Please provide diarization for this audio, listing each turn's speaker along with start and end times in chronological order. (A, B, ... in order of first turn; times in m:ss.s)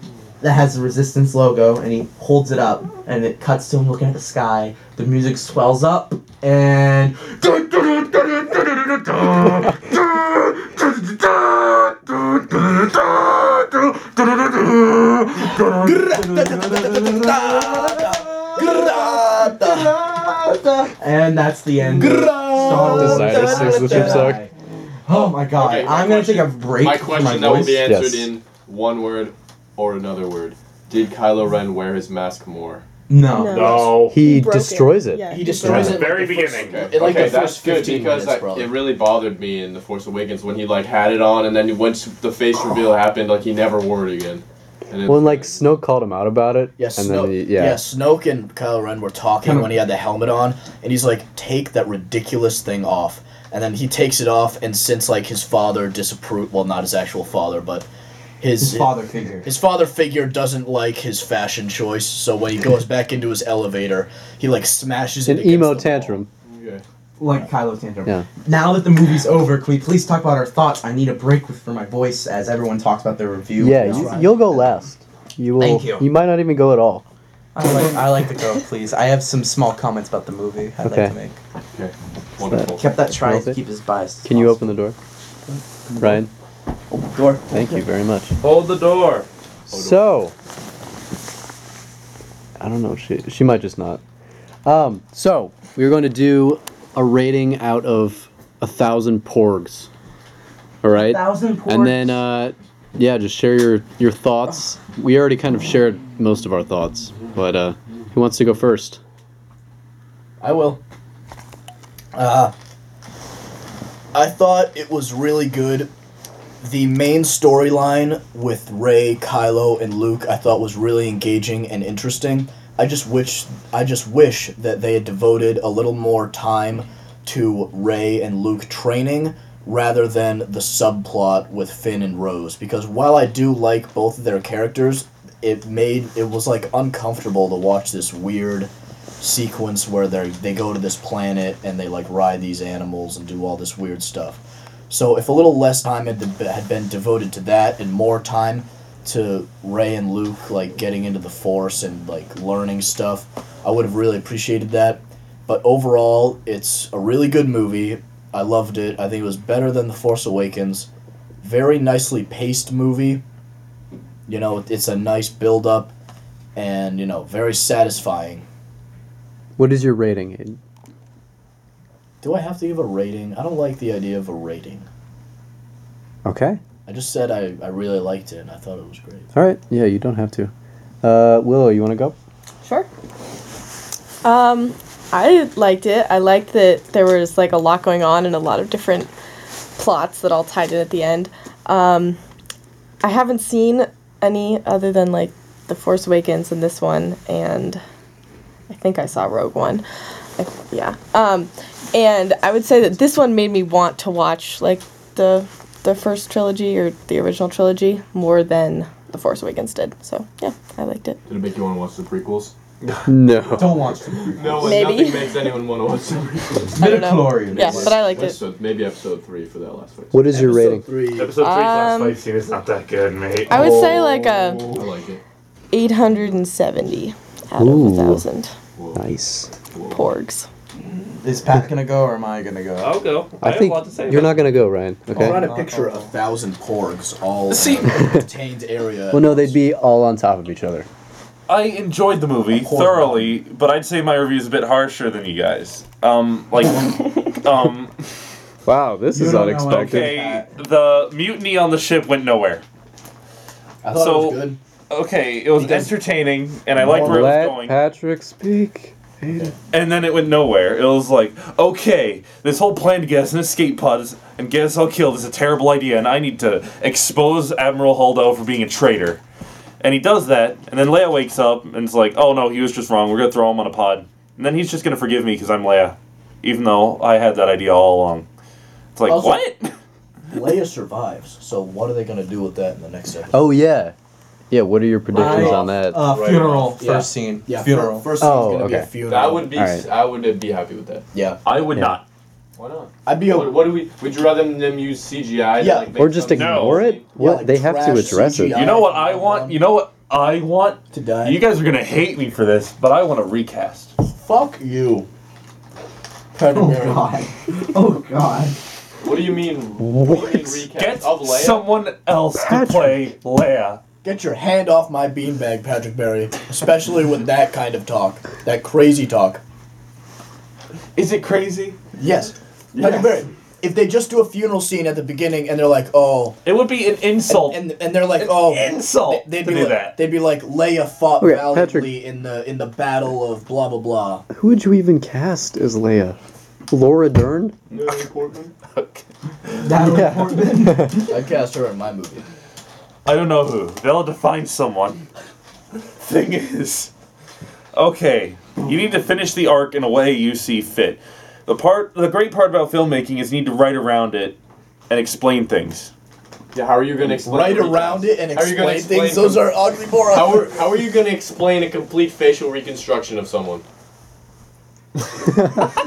0:00.4-0:24.5 A
0:15.7-0:20.3 B
0:21.9-0:24.5 B
0:22.6-0:24.5 C
0:25.1-0:27.9 A
0:25.1-0:32.8 D
0:27.8-0:28.3 C
0:33.1-0:33.7 A
0:33.3-0:36.0 E
0:33.4-0:34.2 F
0:34.1-0:36.0 C
0:35.3-0:38.8 B
0:35.7-0:37.1 F
0:36.4-0:45.7 D
0:45.1-0:47.8 C
0:46.8-0:57.9 B
0:49.4-0:49.7 A
0:58.4-1:06.2 B
0:58.6-0:59.5 A
1:05.2-1:06.3 C
1:06.4-1:06.8 D
1:07.2-1:14.2 A
1:13.6-1:17.0 C
1:13.8-1:14.8 B
1:15.6-1:16.1 A
1:17.5-1:21.4 A
1:20.8-1:21.1 C
1:21.7-1:22.8 D
1:22.5-1:23.6 C
1:22.8-1:24.6 A
1:24.2-1:25.0 C
1:26.0-1:26.3 C
1:26.9-1:27.4 B
1:27.5-1:28.4 C
1:28.4-1:29.3 F
1:29.7-1:30.0 D
1:29.7-1:30.3 C
1:32.6-1:34.0 C
1:34.6-1:39.9 C
1:40.8-1:49.0 C
1:40.9-1:42.2 A
1:50.4-1:50.8 B
1:52.1-1:52.5 B
1:54.1-1:55.9 B
1:56.6-2:40.9 B
2:41.4-2:43.2 B
2:44.3-2:45.9 B
2:46.5-2:48.4 B
2:49.6-2:50.6 C
2:52.2-2:54.9 B
2:56.2-2:56.6 C
2:56.8-2:59.3 B
2:59.3-3:02.1 C
3:04.2-3:09.1 E
3:09.8-3:12.2 E
3:13.0-3:17.8 E
3:18.7-3:19.8 E
3:20.4-3:31.2 E
3:31.2-3:32.5 D
3:32.8-3:33.1 F
3:33.1-3:33.9 C
3:33.6-3:34.8 A
3:34.4-3:36.9 D
3:34.6-3:35.5 E
3:36.7-3:38.4 E
3:36.8-3:37.9 A
3:37.6-3:40.2 D
3:40.1-3:40.9 C
3:40.3-3:41.3 B
3:41.1-3:44.1 F
3:41.4-3:42.2 E
3:43.5-3:44.7 E
3:44.6-3:45.2 D
3:45.7-3:48.5 E
3:47.6-3:48.2 C
3:48.8-3:49.0 D
3:48.9-3:49.5 C
3:49.7-3:50.1 D
3:49.9-3:50.5 E
3:51.2-3:53.0 A
3:52.8-3:54.7 F
3:53.4-3:55.5 C
3:55.1-3:59.6 B
3:55.2-3:55.7 A
3:57.5-3:58.0 F
3:59.1-4:00.9 C
4:01.5-4:08.0 F
4:02.5-4:03.4 B
4:08.6-4:10.2 C
4:09.1-4:10.5 A
4:09.7-4:12.6 F
4:13.8-4:14.6 B
4:13.9-4:17.8 F
4:15.6-4:15.8 B
4:16.8-4:19.5 C
4:19.7-4:29.2 F
4:29.8-4:38.3 F
4:38.9-4:39.7 F
4:39.0-4:39.4 B
4:40.3-4:43.4 B
4:43.3-4:43.9 C
4:44.5-4:46.0 C
4:45.1-4:46.7 D
4:45.1-4:48.1 A
4:46.2-4:46.7 F
4:46.8-4:49.5 B
4:48.2-4:48.9 C
4:49.0-4:51.0 D
4:49.5-4:49.8 C
4:51.1-4:51.4 B
4:51.4-4:52.0 F
4:51.7-4:52.0 C
4:52.6-4:57.0 D
4:53.0-4:53.7 B
4:55.6-4:55.9 B
4:56.0-4:58.7 C
4:56.3-4:57.0 F
4:57.1-4:59.6 B
4:58.5-5:03.9 F
5:00.9-5:01.4 B
5:04.0-5:05.1 B
5:06.3-5:07.2 B
5:06.4-5:08.6 A
5:09.0-5:11.7 D
5:09.8-5:10.6 C
5:10.7-5:13.8 F
5:12.3-5:13.1 C
5:14.0-5:19.4 B
5:21.0-5:21.8 F
5:22.0-5:26.4 B
5:26.4-5:30.0 F
5:27.3-5:34.2 B
5:31.2-5:31.9 C
5:34.3-5:36.2 C
5:36.7-5:37.6 C
5:37.7-5:38.5 D
5:38.7-5:39.0 F
5:39.6-5:41.1 A
5:39.8-5:40.9 C
5:41.1-5:42.2 B
5:43.0-5:45.0 F
5:46.0-5:46.9 F
5:47.7-5:54.4 F
5:54.9-5:55.9 F
5:56.5-5:59.5 D
5:57.2-6:00.6 B
6:00.1-6:03.6 D